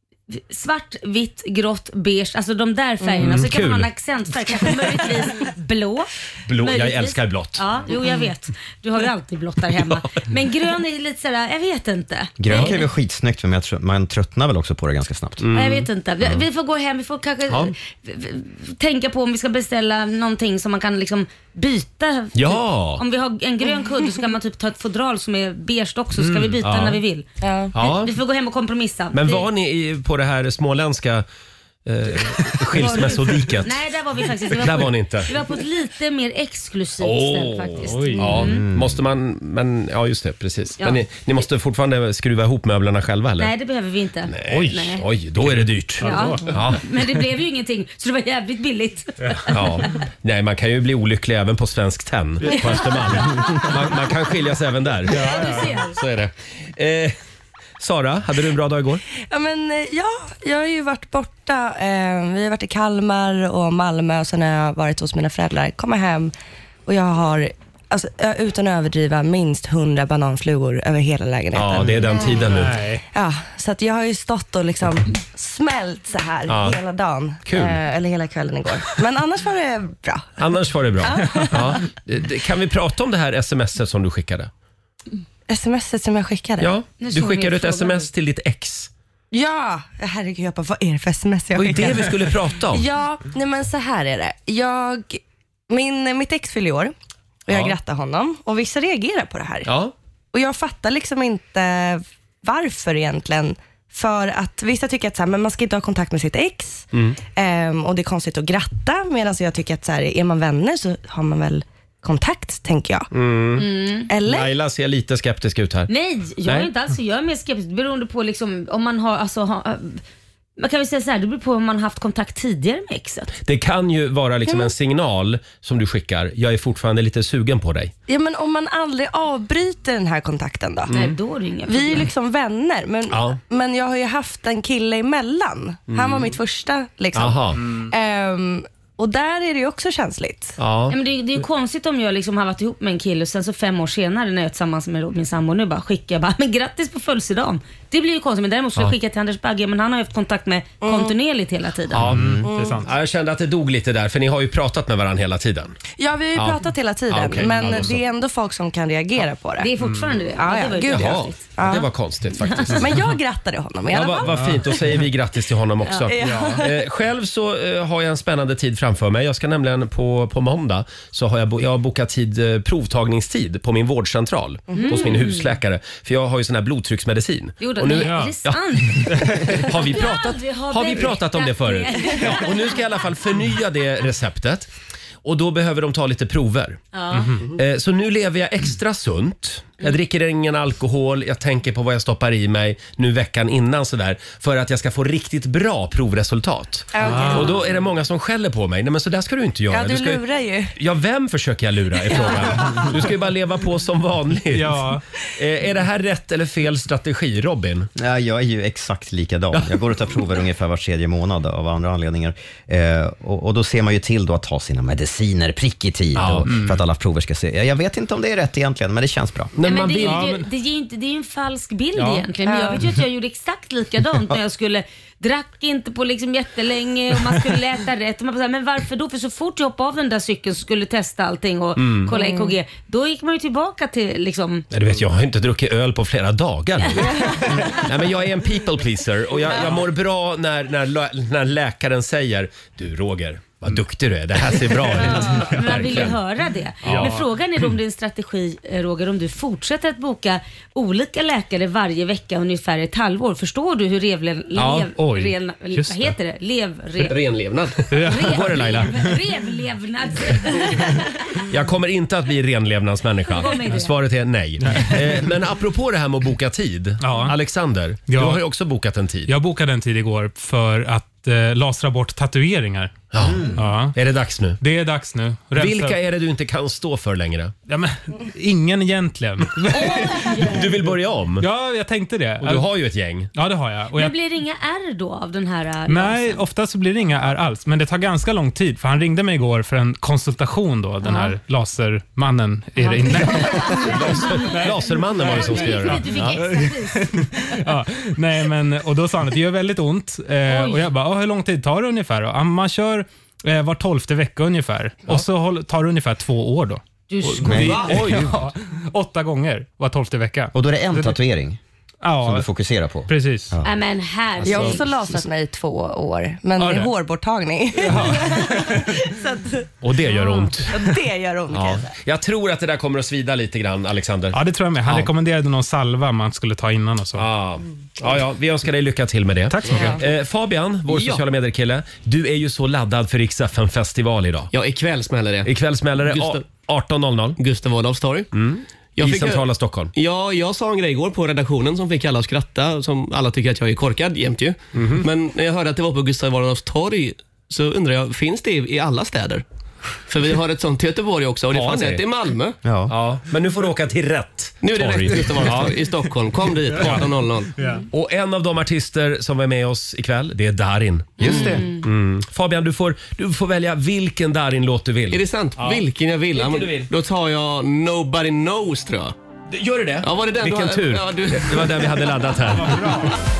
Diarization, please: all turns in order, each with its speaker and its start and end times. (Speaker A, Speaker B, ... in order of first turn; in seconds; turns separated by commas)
Speaker A: 0.3-12.8, Speaker B: 3.0-3.3, Speaker C: 3.2-3.9, Speaker C: 6.5-7.6, Speaker D: 12.4-15.4, Speaker C: 15.4-16.4, Speaker A: 15.5-29.4, Speaker C: 17.5-17.7, Speaker C: 22.3-23.0, Speaker C: 26.2-27.0, Speaker B: 27.4-27.7, Speaker C: 27.7-28.1, Speaker C: 29.1-31.2, Speaker C: 31.8-33.8, Speaker A: 32.8-38.6, Speaker C: 34.5-35.3, Speaker C: 37.0-43.5, Speaker E: 37.8-38.3, Speaker D: 38.4-39.0, Speaker A: 43.4-45.0, Speaker C: 44.3-46.8, Speaker E: 45.5-46.5, Speaker A: 46.0-49.7, Speaker C: 49.5-57.2, Speaker E: 55.1-55.8, Speaker A: 55.1-56.0, Speaker C: 57.8-59.0, Speaker B: 59.2-66.3, Speaker B: 66.8-72.2, Speaker C: 71.5-72.8, Speaker E: 72.5-73.0, Speaker B: 73.1-80.4, Speaker C: 76.5-76.8, Speaker C: 77.4-77.8, Speaker C: 80.4-84.5, Speaker B: 81.0-81.8, Speaker B: 85.5-86.7, Speaker C: 86.6-88.9, Speaker A: 87.0-88.1, Speaker B: 89.3-96.9, Speaker C: 91.5-92.8, Speaker B: 97.5-99.7, Speaker C: 97.5-97.8, Speaker C: 99.6-99.9, Speaker B: 100.3-113.1, Speaker C: 106.9-107.2, Speaker C: 113.1-113.7, Speaker A: 113.6-114.1, Speaker B: 114.1-114.5, Speaker C: 114.2-115.9, Speaker A: 115.9-120.0, Speaker C: 116.5-116.7, Speaker A: 120.6-123.3, Speaker C: 123.4-127.9, Speaker B: 124.4-124.7, Speaker B: 128.1-130.9, Speaker A: 130.9-132.1, Speaker B: 131.7-140.5, Speaker C: 133.1-133.4, Speaker C: 135.9-136.4, Speaker C: 137.1-137.6, Speaker C: 140.6-140.9, Speaker A: 140.9-152.0, Speaker B: 150.8-151.1, Speaker C: 151.9-155.8, Speaker E: 152.0-152.9, Speaker D: 152.1-152.4, Speaker B: 152.4-152.8, Speaker B: 156.0-159.7, Speaker C: 156.3-158.0, Speaker E: 157.5-157.8, Speaker A: 159.6-161.4, Speaker E: 159.8-160.1, Speaker B: 160.3-161.9, Speaker C: 160.9-163.1, Speaker A: 162.4-162.7, Speaker B: 162.7-164.6, Speaker C: 163.9-184.7, Speaker E: 164.3-164.6, Speaker B: 166.1-166.8, Speaker E: 166.2-166.6, Speaker B: 174.7-175.1, Speaker A: 174.7-175.5, Speaker A: 177.6-182.9, Speaker E: 178.0-178.3, Speaker E: 179.0-179.7, Speaker C: 185.2-186.8, Speaker A: 186.9-187.4, Speaker E: 187.1-187.5, Speaker C: 187.5-200.2, Speaker B: 196.9-197.6, Speaker E: 197.0-197.5, Speaker B: 199.7-200.8, Speaker C: 200.8-207.9, Speaker B: 202.1-202.4, Speaker E: 204.5-205.0, Speaker D: 207.9-219.5, Speaker C: 216.1-216.6, Speaker E: 216.4-216.8, Speaker C: 219.6-220.3, Speaker A: 219.6-234.7, Speaker E: 220.0-220.5, Speaker E: 221.9-222.2, Speaker B: 222.4-222.8, Speaker C: 231.8-232.1, Speaker B: 232.1-232.6, Speaker C: 234.7-246.2, Speaker A: 244.9-257.2, Speaker C: 246.8-247.1, Speaker E: 246.8-247.2, Speaker C: 254.6-254.9, Speaker E: 254.9-256.1, Speaker C: 257.0-259.0, Speaker E: 257.9-258.7, Speaker A: 258.0-261.1, Speaker C: 261.5-269.3, Speaker A: 263.3-264.0, Speaker E: 264.6-265.2, Speaker E: 267.0-267.4, Speaker E: 268.1-268.4, Speaker E: 269.3-273.9, Speaker C: 273.1-274.6, Speaker E: 274.6-276.0, Speaker C: 275.5-277.6, Speaker E: 277.7-280.7, Speaker A: 279.7-280.6, Speaker C: 280.4-281.4, Speaker E: 281.4-282.7, Speaker C: 282.4-283.3, Speaker E: 283.3-284.1, Speaker A: 283.9-286.4, Speaker E: 285.9-311.2, Speaker A: 291.0-291.3, Speaker A: 292.8-297.5, Speaker C: 293.9-296.3, Speaker A: 300.4-300.9, Speaker A: 307.1-307.9, Speaker D: 307.4-308.4, Speaker D: 310.5-311.6, Speaker E: 312.0-312.5, Speaker D: 312.2-313.7, Speaker E: 313.1-313.5, Speaker A: 313.6-314.9, Speaker B: 314.4-319.7, Speaker E: 314.4-314.8, Speaker E: 316.6-316.9, Speaker E: 317.8-318.9, Speaker C: 319.8-320.7, Speaker B: 320.7-321.9, Speaker C: 321.5-325.1, Speaker E: 324.3-327.3, Speaker C: 327.2-334.5, Speaker E: 329.5-330.0, Speaker F: 330.9-331.2, Speaker F: 334.5-336.4, Speaker C: 335.4-337.4, Speaker F: 337.4-338.3, Speaker C: 338.3-339.9, Speaker F: 338.9-349.4, Speaker C: 344.7-345.1, Speaker F: 350.1-352.6, Speaker C: 351.5-352.0, Speaker D: 352.6-352.9, Speaker C: 352.9-355.7, Speaker F: 354.6-357.5, Speaker E: 357.6-357.8, Speaker C: 357.9-366.9, Speaker D: 361.2-361.6, Speaker A: 361.2-361.8, Speaker F: 365.1-369.1, Speaker C: 369.5-373.1, Speaker F: 370.0-372.2, Speaker E: 372.5-373.1